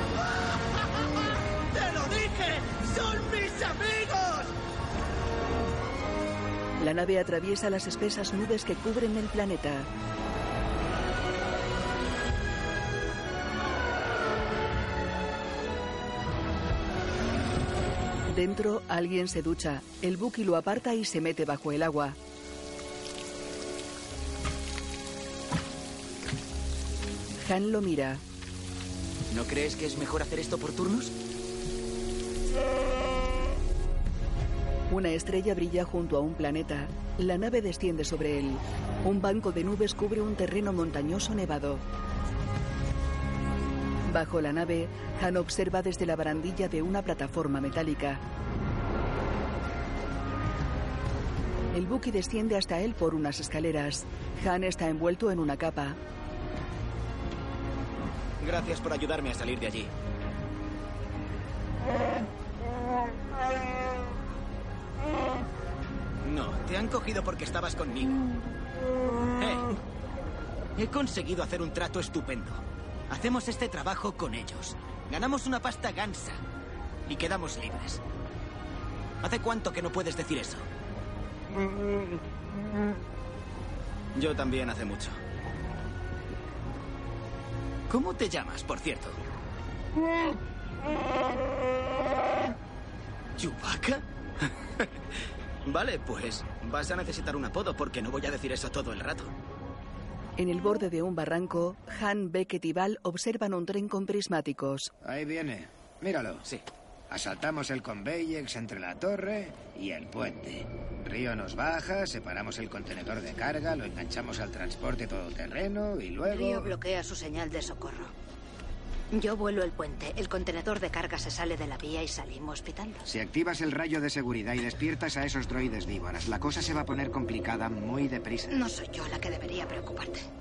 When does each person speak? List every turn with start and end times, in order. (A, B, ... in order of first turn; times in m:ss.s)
0:01.7-0:04.5 A
0:06.8-0:09.9 B
0:18.3-0:22.2 B
0:27.4-0:28.2 B
0:29.3-0:31.1 C
0:34.9-0:41.8 B
0:44.1-0:48.2 B
0:51.7-0:56.0 B
0:58.4-0:59.9 C
1:06.2-1:08.2 C
1:09.4-1:09.7 C
1:10.8-1:16.4 C
1:17.1-1:18.0 C
1:19.2-1:20.7 C
1:24.1-1:25.2 C
1:27.9-1:29.2 C
1:33.4-1:34.9 C
1:35.6-1:39.3 C
1:40.4-1:44.9 B
1:45.0-1:46.4 D
1:47.1-1:56.7 D
1:56.2-1:58.1 E
1:59.1-2:03.0 E
2:03.0-2:08.6 D
2:08.5-2:10.2 E